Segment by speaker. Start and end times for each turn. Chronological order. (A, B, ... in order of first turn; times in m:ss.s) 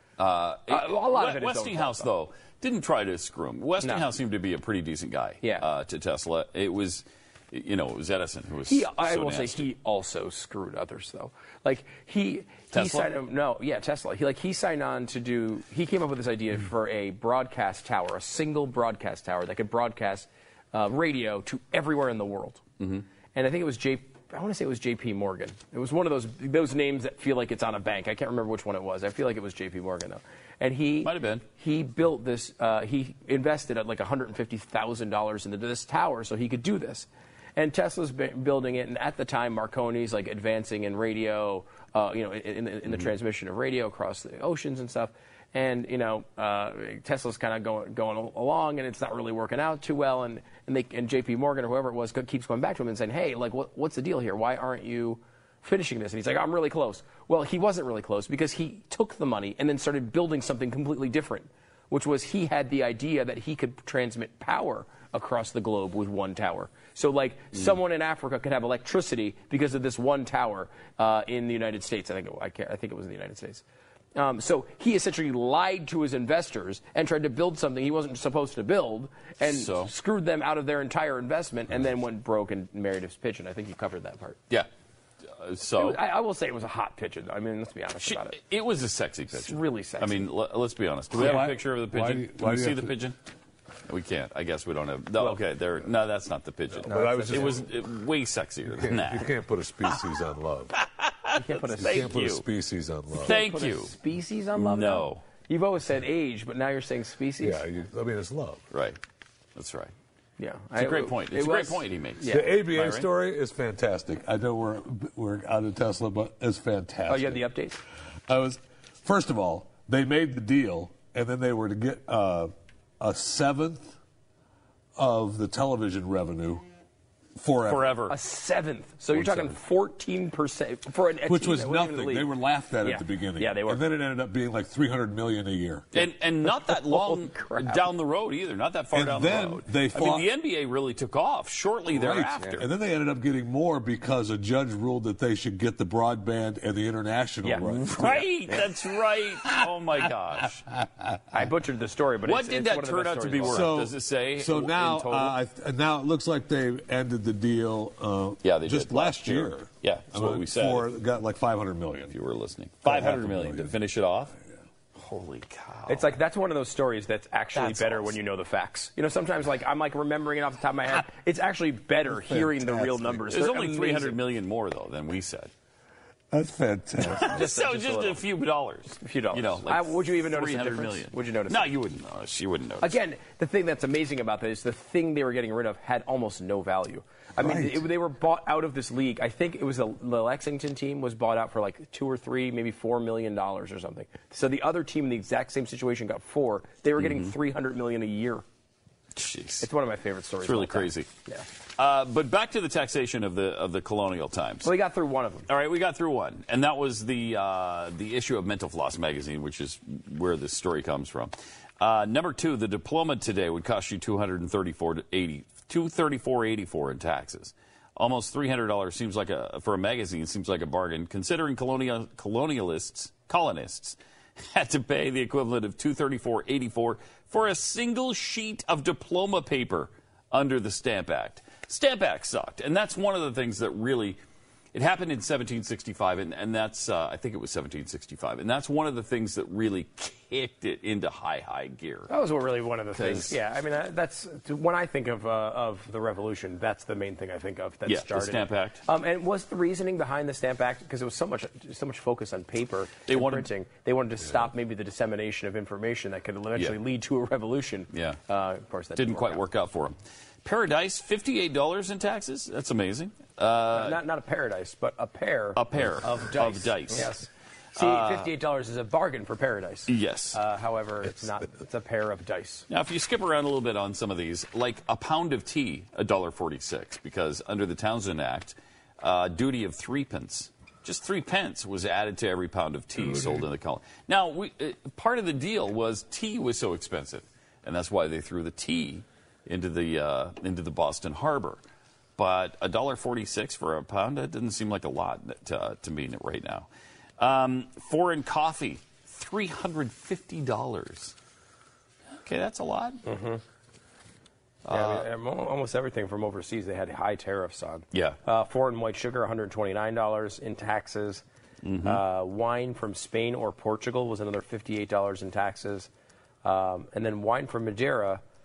0:00.2-0:09.6 A
0:00.7-0:02.1 B
0:08.7-0:22.6 B
0:12.7-0:13.1 A
0:22.8-0:23.0 A
0:23.3-1:13.6 B
0:31.0-0:31.4 A
1:14.1-1:24.4 B
1:19.4-1:19.9 A
1:25.3-1:26.0 A
1:25.7-1:28.4 B
1:28.0-1:33.2 A
1:29.3-1:30.2 B
1:31.1-1:32.9 C
1:33.8-1:39.3 A
1:36.8-1:37.7 C
1:36.9-1:37.6 B
1:38.7-1:40.7 C
1:40.8-1:42.4 A
1:41.3-1:42.2 B
1:41.8-1:43.4 C
1:43.2-1:43.9 A
1:43.2-1:47.6 B
1:44.5-1:45.3 A
1:47.4-1:48.6 C
1:48.7-1:49.0 A
1:49.5-1:49.9 A
1:50.4-1:52.6 B
1:50.7-1:53.1 A
1:52.2-1:57.4 C
1:57.1-1:57.8 B
1:58.3-2:03.9 C
2:05.0-2:06.6 C
2:07.4-2:07.9 C
2:07.6-2:08.2 A
2:08.1-2:12.3 B
2:11.2-2:15.9 C
2:12.8-2:13.8 B
2:15.9-2:22.6 A
2:16.4-2:17.9 B
2:18.9-2:20.3 C
2:21.9-2:28.2 C
2:27.4-2:28.7 B
2:27.8-2:30.7 A
2:31.3-2:33.7 B
2:32.2-2:35.4 A
2:33.4-2:42.1 C
2:38.4-2:40.9 A
2:42.1-2:44.4 A
2:42.8-2:43.7 C
2:45.0-2:46.1 A
2:45.9-2:54.2 B
2:47.5-2:48.2 A
2:52.1-2:53.2 C
2:53.3-2:55.5 A
2:56.3-2:57.4 C
2:57.0-3:03.0 A
2:57.1-2:58.2 B
2:59.0-3:01.7 B
3:02.8-3:18.4 B
3:07.4-3:07.8 C
3:17.0-3:17.3 A
3:19.1-3:19.7 A
3:19.6-3:21.4 B
3:20.4-3:21.1 A
3:21.8-3:24.7 A
3:24.6-3:25.5 B
3:25.5-3:54.2 A
3:54.7-4:02.1 A
4:02.1-4:19.4 B
4:02.9-4:03.4 A
4:07.8-4:08.8 A
4:13.1-4:13.5 A
4:17.9-4:18.2 A
4:19.0-4:24.0 A
4:23.7-4:32.7 B
4:25.6-4:27.1 A
4:27.8-4:28.3 A
4:29.9-4:30.4 A
4:32.7-4:51.6 A
4:52.2-4:56.7 A
4:57.2-5:01.2 A
5:02.2-5:03.0 A
5:03.0-5:03.4 B
5:04.6-5:05.1 A
5:04.7-5:11.2 B
5:07.9-5:08.2 A
5:11.6-5:12.0 A
5:11.8-5:15.9 B
5:16.4-5:18.2 B